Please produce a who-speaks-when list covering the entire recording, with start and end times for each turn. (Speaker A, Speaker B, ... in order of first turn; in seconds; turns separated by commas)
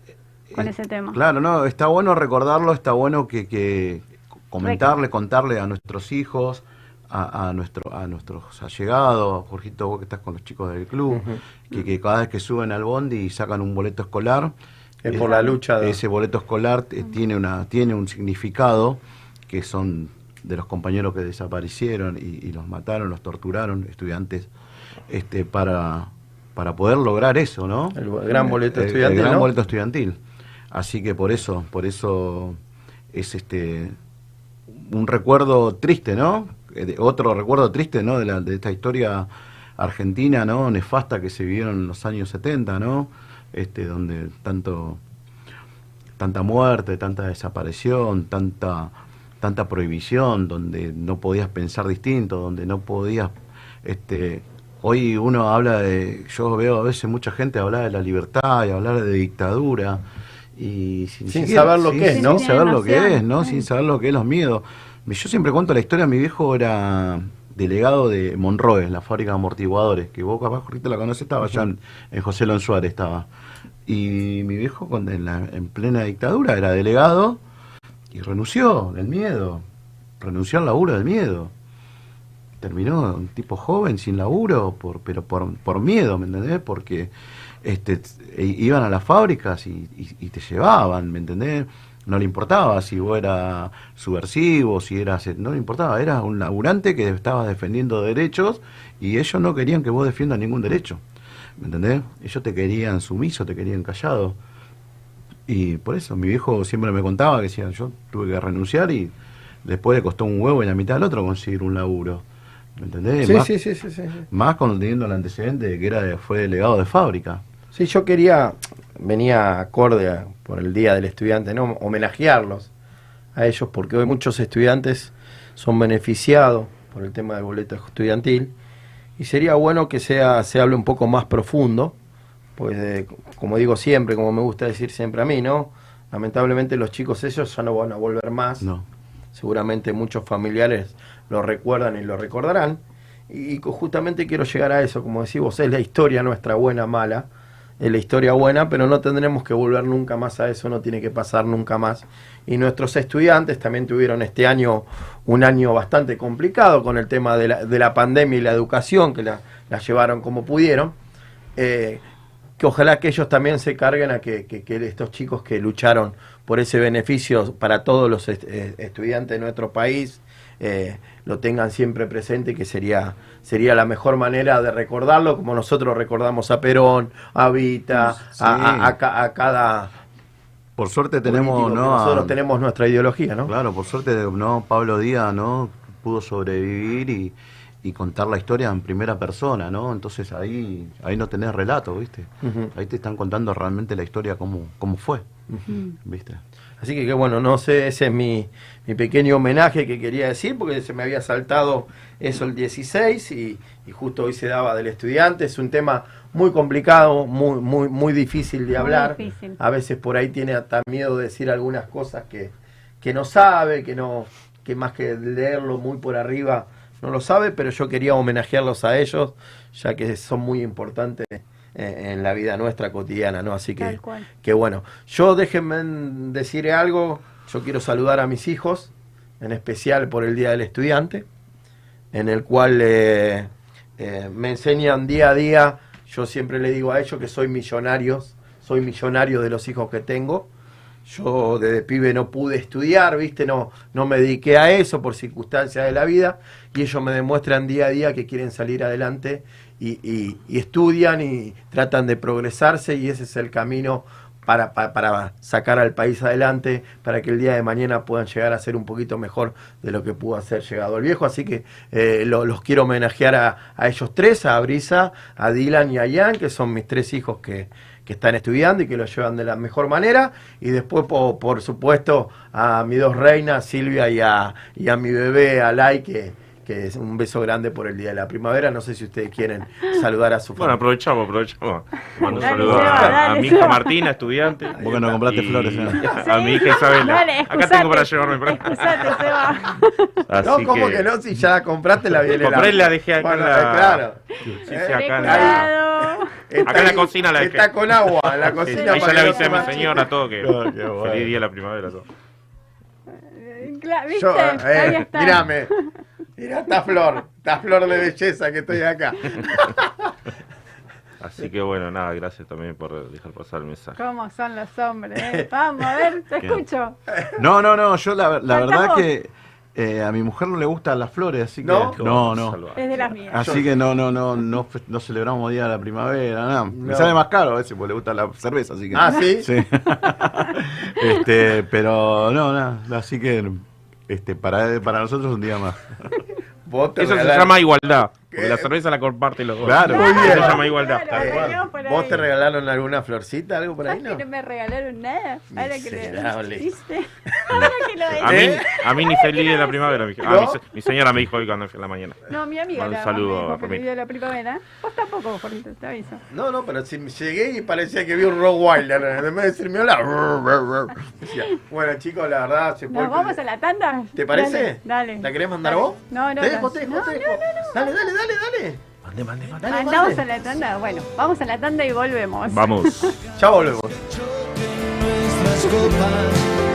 Speaker A: 0.5-14.5, Speaker B: 0.5-1.2, Speaker C: 11.1-11.4, Speaker C: 15.0-16.0, Speaker A: 15.1-24.5, Speaker B: 15.2-15.6, Speaker A: 25.1-30.2, Speaker C: 27.9-29.5, Speaker A: 30.7-32.6, Speaker A: 33.1-33.9, Speaker A: 34.7-39.3, Speaker A: 39.8-45.0, Speaker A: 46.2-60.0, Speaker A: 60.6-73.3, Speaker C: 61.3-62.4, Speaker B: 62.1-63.6, Speaker A: 73.8-77.4, Speaker A: 78.1-79.6, Speaker A: 80.2-81.5, Speaker A: 82.6-87.1, Speaker A: 87.6-101.0, Speaker A: 101.6-104.4, Speaker A: 105.5-112.2, Speaker A: 112.8-113.5, Speaker C: 113.2-114.2, Speaker A: 114.3-117.4, Speaker C: 117.7-122.7, Speaker C: 123.3-128.5, Speaker C: 129.2-131.9, Speaker C: 132.6-138.7, Speaker C: 139.3-147.3, Speaker C: 147.8-160.9, Speaker C: 161.6-162.0, Speaker C: 162.6-179.9, Speaker A: 177.9-178.9, Speaker A: 180.8-182.3, Speaker C: 181.2-183.5, Speaker A: 183.4-195.2, Speaker C: 192.4-192.7, Speaker A: 195.9-196.4, Speaker C: 196.8-231.2, Speaker B: 208.8-209.6, Speaker B: 223.8-224.3, Speaker C: 232.1-240.5, Speaker C: 241.0-280.8, Speaker D: 280.6-289.2, Speaker B: 282.3-283.9, Speaker A: 282.4-283.0, Speaker C: 282.6-283.1, Speaker A: 284.8-286.0, Speaker B: 286.0-290.1, Speaker D: 290.3-291.0, Speaker C: 290.4-295.7, Speaker D: 292.3-295.7, Speaker B: 294.9-296.7, Speaker C: 296.4-300.1, Speaker D: 296.6-302.1, Speaker B: 298.7-300.0, Speaker A: 300.4-301.3, Speaker B: 303.2-305.5, Speaker C: 304.1-305.7, Speaker C: 306.4-309.9, Speaker D: 311.2-314.0, Speaker B: 314.0-317.0, Speaker A: 317.4-322.6, Speaker B: 318.5-319.0, Speaker C: 321.6-322.0, Speaker D: 321.9-322.8, Speaker B: 322.7-323.4, Speaker A: 323.3-336.2, Speaker C: 323.3-323.7, Speaker C: 326.7-327.2, Speaker C: 328.9-329.5, Speaker C: 336.6-337.6, Speaker D: 337.0-341.5, Speaker C: 338.3-338.7, Speaker A: 339.6-340.4, Speaker C: 339.8-344.2, Speaker B: 339.9-342.2, Speaker B: 343.9-349.7, Speaker C: 345.5-346.7, Speaker C: 347.3-348.6, Speaker D: 348.2-353.8, Speaker C: 350.2-350.6, Speaker B: 352.3-356.2, Speaker C: 356.3-363.4, Speaker B: 362.9-367.7, Speaker C: 364.1-368.8, Speaker D: 369.1-369.7, Speaker C: 369.6-370.2, Speaker B: 369.7-373.1, Speaker D: 372.5-373.1, Speaker C: 373.4-374.0, Speaker E: 374.1-376.4